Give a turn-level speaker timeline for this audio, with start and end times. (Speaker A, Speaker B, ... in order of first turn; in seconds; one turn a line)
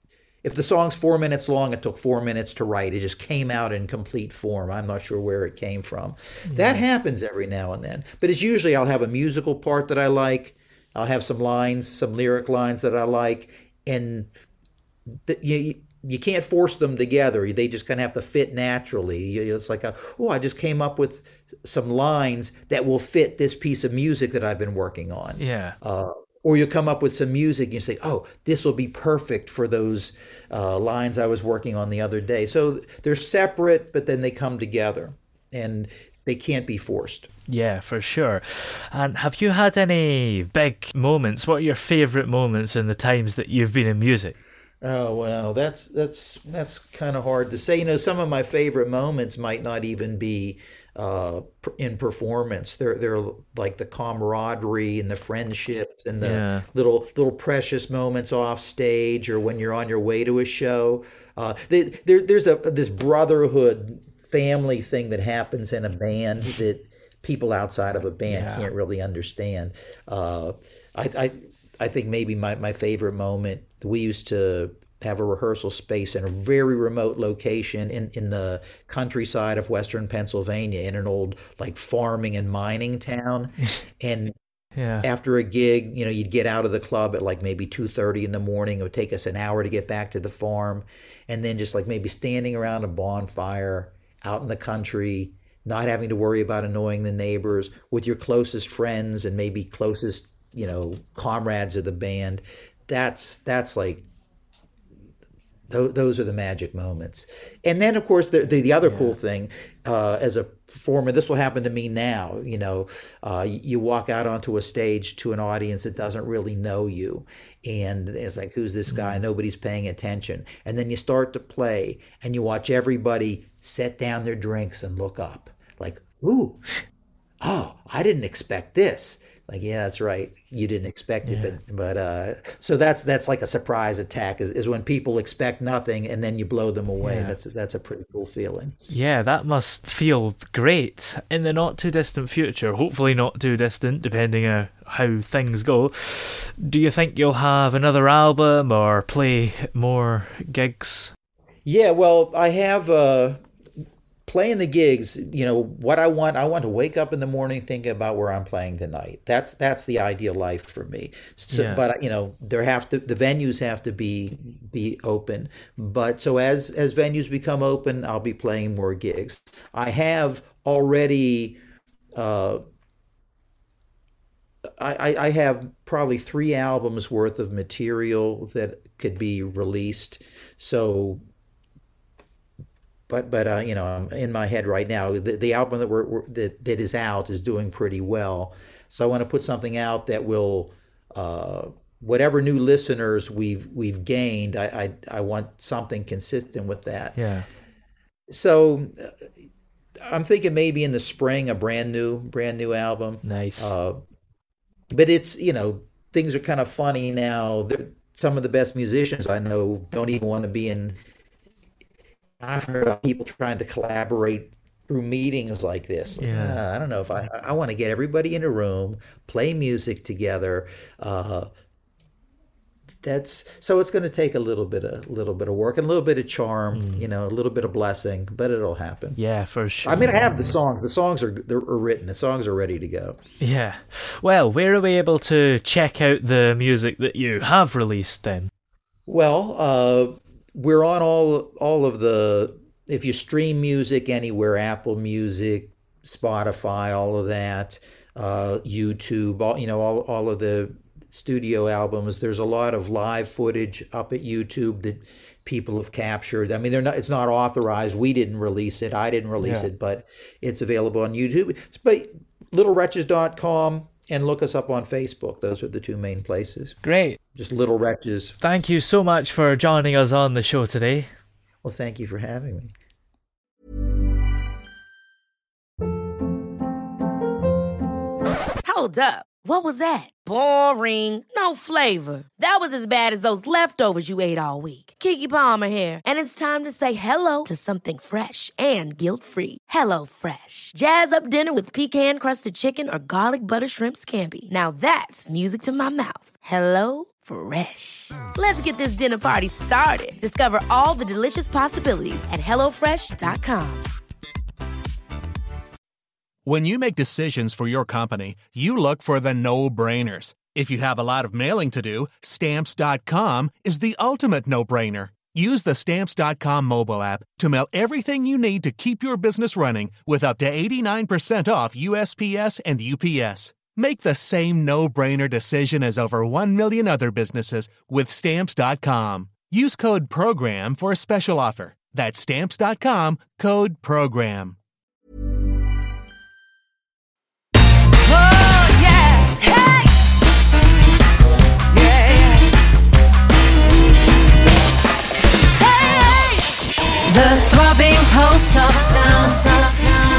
Speaker A: 0.4-14.3
Speaker B: 6.5-6.8
Speaker A: 15.3-37.3
Speaker B: 25.4-25.8
Speaker B: 37.5-44.4
Speaker A: 44.8-84.3
Speaker B: 56.2-56.6
Speaker B: 68.3-68.7
Speaker B: 84.8-85.1
Speaker A: 85.0-104.0
Speaker A: 105.7-126.6
Speaker B: 108.8-109.2
Speaker B: 118.9-119.2
Speaker A: 127.4-138.8
Speaker B: 131.2-131.6
Speaker B: 137.0-137.3
Speaker B: 138.9-151.1
Speaker A: 151.7-153.4
Speaker A: 154.3-171.6
Speaker B: 161.5-161.8
Speaker A: 172.1-172.6
Speaker A: 174.8-181.2
Speaker A: 183.1-197.2
Speaker B: 197.1-197.5
Speaker A: 198.3-199.1
Speaker A: 200.1-204.0
Speaker B: 203.2-203.7
Speaker A: 204.9-211.0
Speaker A: 212.4-221.5
Speaker B: 216.2-216.6
Speaker A: 223.0-229.2
Speaker B: 226.7-227.1
Speaker B: 229.2-230.6
Speaker A: 229.8-233.2
Speaker B: 233.4-238.5
Speaker A: 239.1-266.8
Speaker B: 259.4-259.7
Speaker B: 266.8-267.2
Speaker A: 267.3-268.4
Speaker B: 268.4-271.1
Speaker A: 271.6-272.7
Speaker C: 278.6-303.9
Speaker D: 306.4-334.6
Speaker C: 338.4-339.4
Speaker E: 347.1-349.8